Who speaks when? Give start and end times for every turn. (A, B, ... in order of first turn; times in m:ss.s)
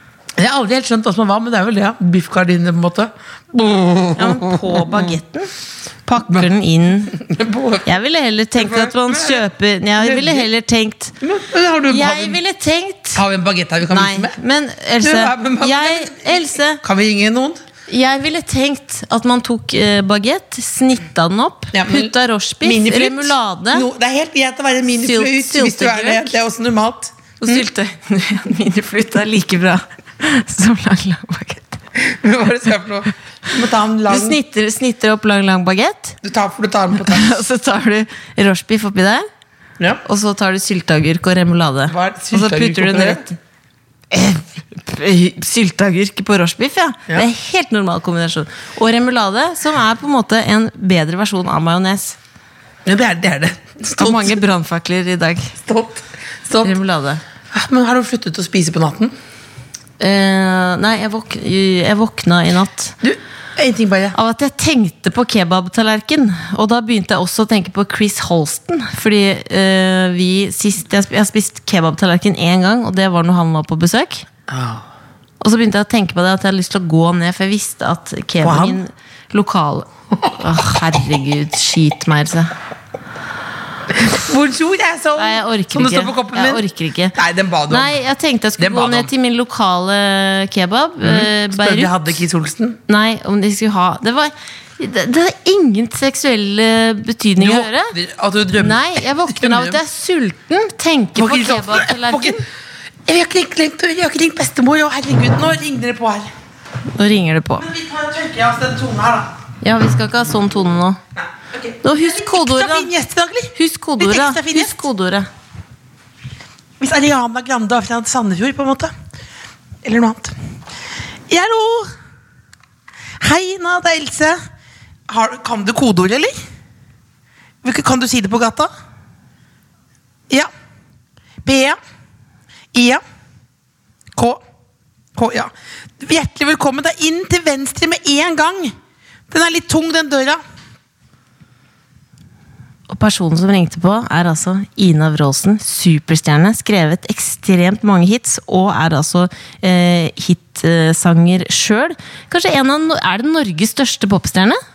0:00.4-0:05.2 A
0:04.2-0:05.5 B
0:06.1-0:07.2 B
0:06.2-0:06.5 A
0:07.1-0:07.9 A
0:07.8-0:11.1 B
0:08.6-0:09.4 A
0:10.0-0:10.5 A
0:11.2-0:12.4 A
0:11.9-0:13.2 B
0:13.1-0:14.4 A
0:13.9-0:16.8 B
0:15.0-0:17.6 A
0:17.9-0:23.8 B
0:21.7-0:27.6 A
0:25.0-0:26.3 B
0:27.4-0:31.8 B
0:31.9-0:34.4 A
0:34.1-0:36.2 B
0:36.2-0:37.4 A
0:37.0-0:39.3 B
0:40.0-0:43.4 B
0:41.9-0:43.2 A
0:44.1-0:52.2 B
0:52.8-0:54.4 A
0:54.0-0:55.6 B
0:55.6-0:56.8 A
0:56.6-0:57.2 B
0:57.5-0:59.1 A
1:00.0-1:03.0 B
1:03.0-1:04.2 A
1:04.1-1:14.2 B
1:14.5-1:14.8 A
1:15.4-1:22.5 B
1:18.4-1:18.8 A
1:23.9-1:26.6 A
1:25.2-1:27.2 B
1:27.1-1:28.0 A
1:27.7-1:32.1 B
1:28.6-1:29.1 A
1:31.0-1:32.8 A
1:32.9-1:37.9 B
1:37.4-1:39.8 A
1:38.6-1:42.4 B
1:41.2-1:42.4 A
1:43.0-1:46.3 A
1:47.0-1:47.7 B
1:47.6-1:49.3 A
1:49.6-1:51.0 B
1:51.2-1:54.8 A
1:51.8-1:52.9 B
1:53.5-1:55.3 B
1:56.8-1:58.9 A
1:59.8-2:00.3 A
2:01.3-2:01.9 A
2:03.2-2:04.4 A
2:05.1-2:06.3 A
2:07.6-2:08.7 A
2:11.4-2:11.8 A
2:12.7-2:13.0 A
2:14.1-2:14.4 A
2:15.1-2:18.7 A
2:19.3-2:20.4 A
2:22.9-2:34.6 B